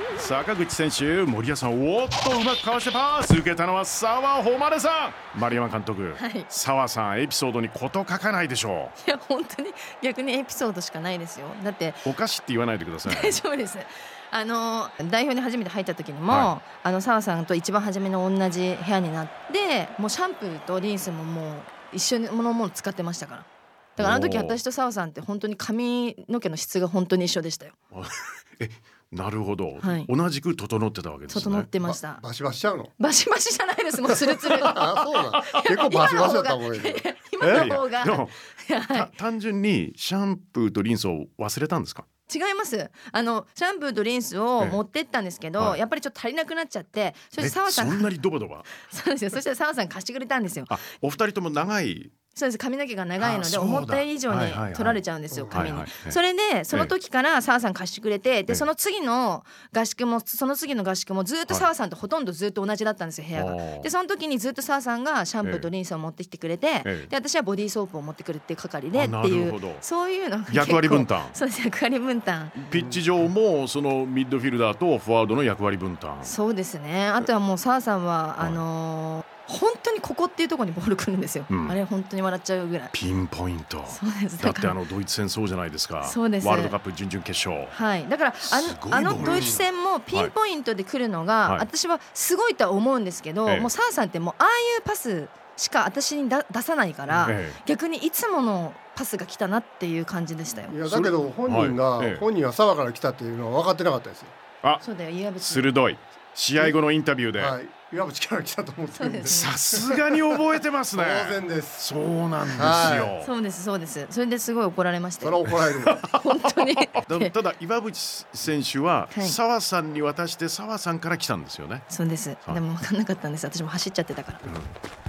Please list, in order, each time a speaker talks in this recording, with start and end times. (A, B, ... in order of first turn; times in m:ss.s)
0:00.2-0:09.0 A
0:06.2-0:06.5 B
0:09.0-0:12.1 B
0:12.0-0:13.4 A
0:13.0-0:27.8 B
0:24.0-0:24.6 A
0:27.9-0:31.7 A
0:29.8-0:30.1 B
0:31.3-0:32.2 B
0:31.8-0:32.9 C
0:33.0-0:39.1 B
0:34.1-0:37.7 C
0:37.4-0:38.4 A
0:38.9-0:42.1 A
0:42.3-0:48.1 B
0:47.4-0:48.7 A
0:48.7-0:50.8 B
0:50.7-0:52.1 A
0:52.4-1:12.6 B
0:53.2-0:56.2 A
0:55.3-0:55.7 C
1:03.4-1:03.9 A
1:05.4-1:05.7 A
1:06.8-1:07.1 A
1:08.9-1:09.8 A
1:10.5-1:11.4 A
1:12.6-1:16.3 A
1:12.7-1:13.0 C
1:16.2-1:22.9 B
1:21.5-1:21.8 A
1:22.9-1:27.8 A
1:23.9-1:24.8 B
1:26.0-1:26.8 B
1:27.7-1:40.8 B
1:28.4-1:29.5 A
1:29.2-1:29.6 C
1:33.5-1:33.7 A
1:37.2-1:37.6 A
1:40.7-1:44.3 C
1:40.9-1:42.2 A
1:44.8-1:45.8 B
1:45.4-1:47.6 A
1:47.4-1:50.4 C
1:49.0-1:49.6 B
1:49.3-1:53.3 A
1:50.9-1:51.8 C
1:52.5-1:53.1 C
1:53.2-1:57.3 B
1:55.2-1:56.0 C
1:55.7-2:01.9 A
1:59.1-1:59.4 B
2:01.9-2:04.4 B
2:04.4-2:04.8 A